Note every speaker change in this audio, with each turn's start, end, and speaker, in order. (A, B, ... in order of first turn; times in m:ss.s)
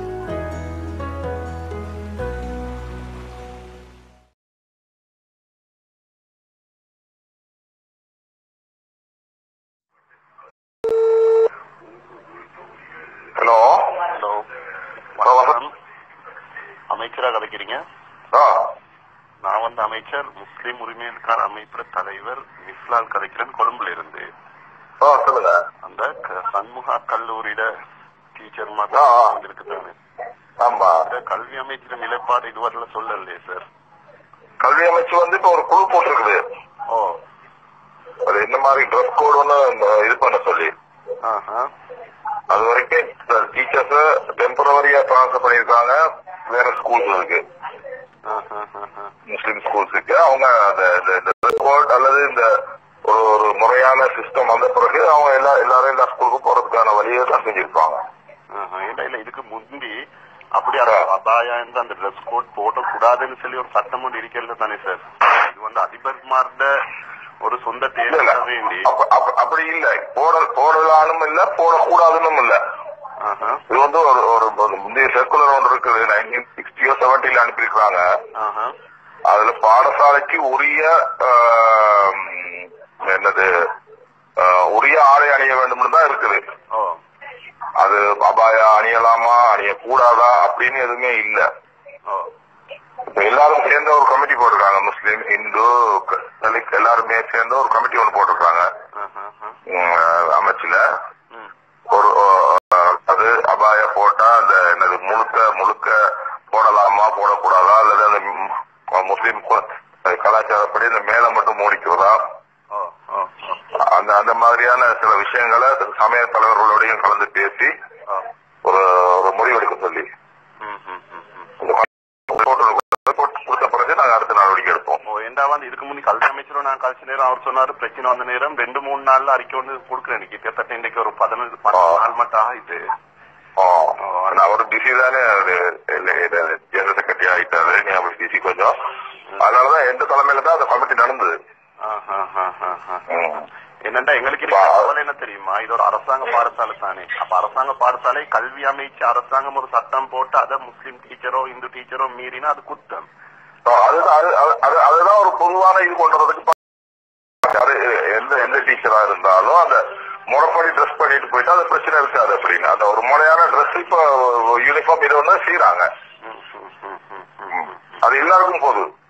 0:13.4-0:14.0 A
0:14.1-0:14.4 B
0:15.1-0:15.7 B
0:15.2-0:15.5 A
0:16.9-0:17.8 B
0:18.3-0:18.7 A
0:19.4-0:24.3 B
0:25.0-0:25.6 A
0:25.8-0:27.7 B
0:28.3-0:29.9 B
0:28.9-0:29.4 A
0:30.6-0:31.1 A
0:31.0-0:33.6 B
0:34.6-0:36.4 A
0:36.9-0:37.2 B
0:38.2-0:40.7 A
0:41.2-0:41.7 B
0:42.5-0:47.4 A
0:48.2-0:49.1 B
0:49.3-0:52.5 A
0:53.0-0:58.0 A
0:58.5-1:00.0 B
1:00.5-1:06.9 B
1:07.4-1:08.9 B
1:08.1-1:12.6 A
1:13.2-1:13.6 B
1:13.7-1:18.1 A
1:18.4-1:18.7 B
1:19.3-1:23.7 A
1:24.4-1:26.4 A
1:26.7-1:27.0 B
1:27.8-1:31.4 A
1:33.1-1:38.7 A
1:39.0-1:39.6 B
1:39.6-1:40.8 A
1:41.9-1:52.2 A
1:52.7-1:53.6 B
1:53.7-1:57.7 A
1:58.6-2:00.0 A
2:00.6-2:01.5 B
2:01.6-2:05.0 A
2:05.0-2:12.9 B
2:11.7-2:12.0 A
2:13.6-2:18.8 A
2:14.0-2:14.5 B
2:19.4-2:21.3 A
2:21.8-2:23.2 B
2:23.1-2:23.4 A
2:23.8-2:33.1 B
2:24.4-2:24.9 A
2:33.6-2:36.5 A
2:37.4-2:45.9 A
2:46.2-2:47.9 B
2:47.5-2:48.8 A